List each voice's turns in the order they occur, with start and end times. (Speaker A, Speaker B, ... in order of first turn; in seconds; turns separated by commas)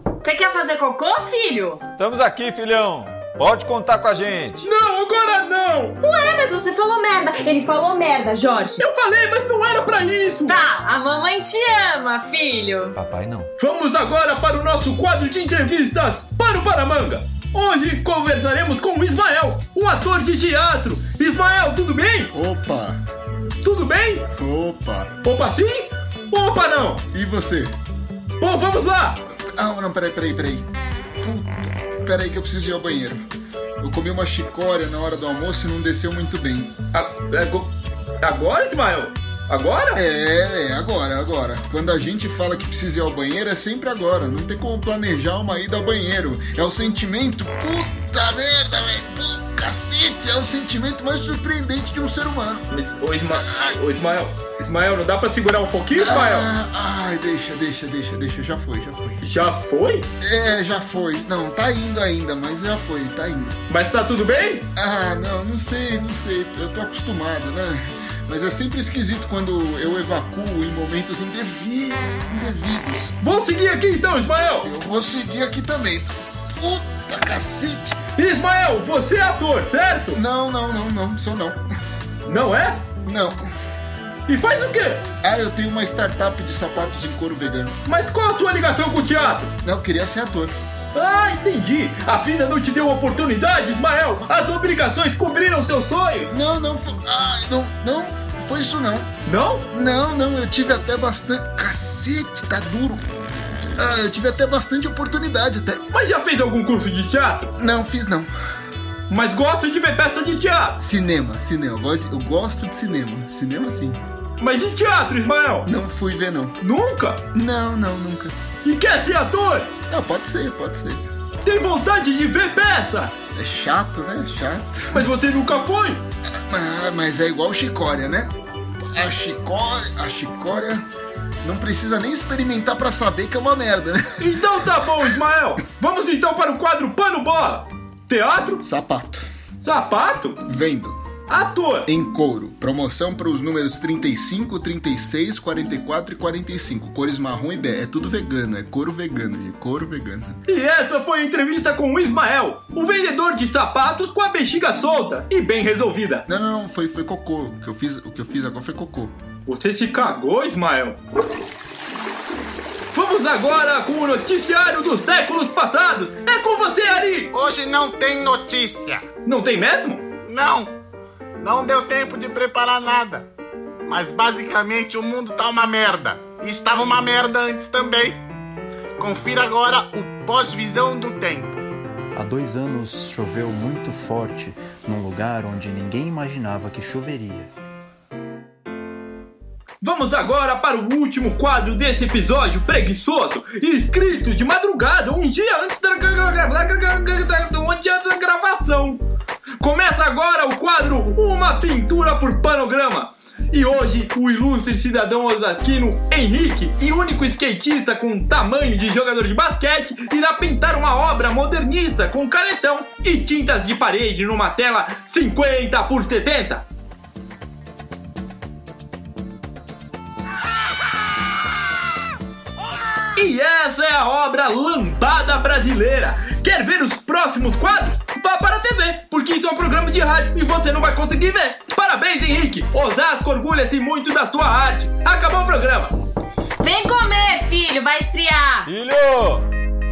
Speaker A: 0.2-1.8, Speaker B: 1.9-4.7, Speaker C: 4.6-6.0, Speaker A: 6.0-8.8, Speaker C: 8.8-10.6, Speaker A: 10.5-12.9, Speaker B: 12.9-13.5, Speaker C: 13.6-22.3, Speaker D: 22.3-23.0, Speaker C: 23.6-24.3, Speaker D: 24.4-25.1, Speaker C: 25.2-27.0, Speaker D: 27.1-27.8, Speaker C: 28.4-29.2, Speaker D: 29.4-30.6, Speaker D: 31.2-33.3, Speaker D: 33.8-36.7, Speaker C: 36.9-40.0, Speaker D: 40.0-52.6, Speaker C: 52.7-56.5, Speaker D: 56.0-59.2, Speaker C: 59.2-60.1, Speaker D: 60.2-63.6, Speaker C: 63.7-64.7, Speaker D: 64.7-73.1, Speaker C: 73.2-74.7, Speaker D: 74.6-78.0, Speaker C: 78.1-80.2, Speaker D: 80.1-81.6, Speaker C: 82.2-82.8, Speaker D: 83.0-83.4, Speaker C: 84.3-85.0, Speaker D: 85.2-87.8, Speaker C: 87.8-89.5, Speaker D: 89.6-90.5, Speaker C: 90.9-96.3, Speaker D: 96.3-99.1, Speaker C: 99.2-99.7, Speaker D: 99.7-103.1, Speaker D: 103.8-105.8, Speaker C: 105.9-107.5, Speaker D: 107.6-108.3, Speaker C: 109.1-110.8, Speaker D: 110.8-114.0, Speaker C: 114.4-115.7, Speaker D: 115.6-116.6, Speaker C: 116.6-117.2, Speaker D: 117.3-118.3, Speaker C: 118.6-119.7, Speaker D: 119.9-121.0, Speaker C: 121.4-123.1, Speaker D: 123.3-125.1, Speaker C: 124.9-126.0, Speaker D: 126.5-128.3, Speaker D: 128.9-130.9, Speaker D: 131.4-135.2, Speaker C: 134.2-138.6, Speaker D: 138.6-139.2, Speaker C: 139.6-140.4, Speaker D: 140.5-141.0, Speaker C: 141.3-141.9, Speaker D: 141.9-150.3, Speaker C: 150.5-156.2, Speaker D: 156.3-159.1, Speaker C: 159.5-161.0, Speaker C: 162.9-167.3, Speaker E: 167.3-169.1, Speaker C: 169.2-170.0, Speaker E: 170.2-170.8, Speaker E: 171.4-173.3, Speaker E: 173.9-178.2, Speaker E: 179.0-181.6, Speaker F: 182.1-187.5, Speaker C: 189.8-199.0, Speaker C: 199.6-216.6, Speaker C: 223.2-235.9, Speaker A: 236.6-238.7, Speaker B: 238.7-239.5